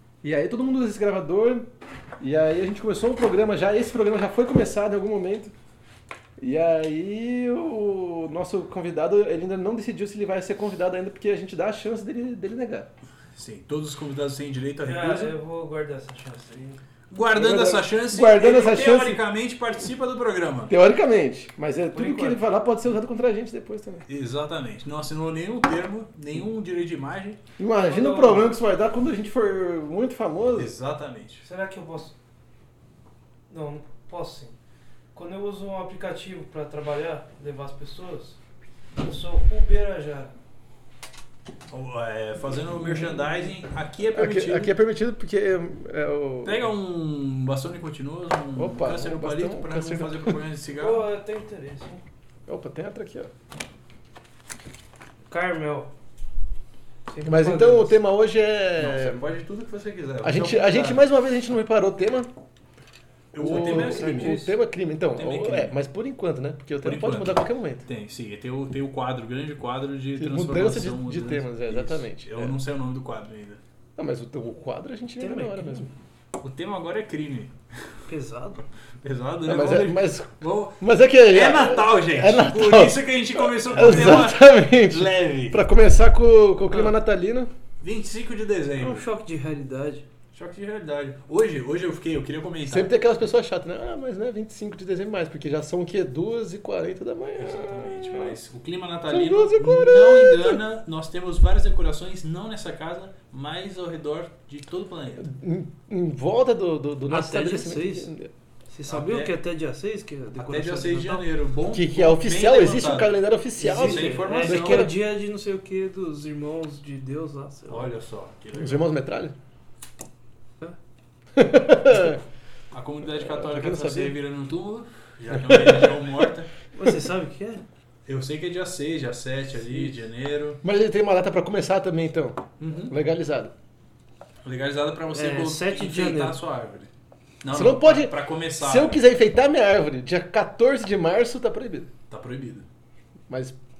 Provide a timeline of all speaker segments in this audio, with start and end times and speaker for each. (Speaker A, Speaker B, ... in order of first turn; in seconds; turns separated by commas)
Speaker A: 0.2-5.5, Speaker A: 6.4-12.9, Speaker B: 13.3-15.3, Speaker C: 14.8-16.8, Speaker B: 17.1-20.7, Speaker A: 17.3-19.2, Speaker A: 20.7-24.1, Speaker C: 21.9-22.4, Speaker B: 24.1-27.4, Speaker A: 27.6-30.7, Speaker C: 27.8-28.5, Speaker B: 30.5-31.4, Speaker C: 31.4-32.1, Speaker C: 33.5-34.5, Speaker C: 35.1-38.4, Speaker C: 39.0-40.3, Speaker B: 41.7-44.8, Speaker A: 44.1-46.7, Speaker B: 46.4-51.1, Speaker A: 48.5-50.4, Speaker C: 50.8-52.0, Speaker A: 52.5-53.3, Speaker C: 55.3-55.9, Speaker C: 57.1-58.0, Speaker A: 57.2-59.2, Speaker B: 58.8-61.1, Speaker A: 60.2-62.3, Speaker A: 63.3-67.8, Speaker B: 63.3-64.5, Speaker C: 63.4-64.4, Speaker B: 65.1-65.8, Speaker B: 66.8-73.6, Speaker A: 70.2-72.5, Speaker A: 74.0-75.9, Speaker C: 75.2-75.9, Speaker B: 76.4-77.5, Speaker C: 78.1-78.6, Speaker B: 79.0-85.6, Speaker A: 79.4-87.5, Speaker B: 87.8-89.1, Speaker C: 88.8-90.0, Speaker B: 90.3-92.9, Speaker A: 92.7-98.3, Speaker B: 97.4-105.3, Speaker A: 99.1-100.6, Speaker A: 105.2-108.3, Speaker C: 107.1-108.1, Speaker C: 108.7-111.2, Speaker B: 108.8-109.4, Speaker B: 110.3-114.9, Speaker A: 111.7-115.0, Speaker C: 113.6-117.9, Speaker B: 117.7-118.9, Speaker A: 118.5-119.3, Speaker A: 121.3-122.2, Speaker B: 122.7-126.5, Speaker A: 123.0-124.2, Speaker A: 125.3-126.2, Speaker C: 126.7-127.6, Speaker B: 128.1-130.6, Speaker A: 130.6-133.5, Speaker B: 132.6-132.9, Speaker B: 134.4-139.0, Speaker C: 135.1-136.4, Speaker A: 137.5-141.9, Speaker B: 142.1-142.7, Speaker A: 143.3-143.6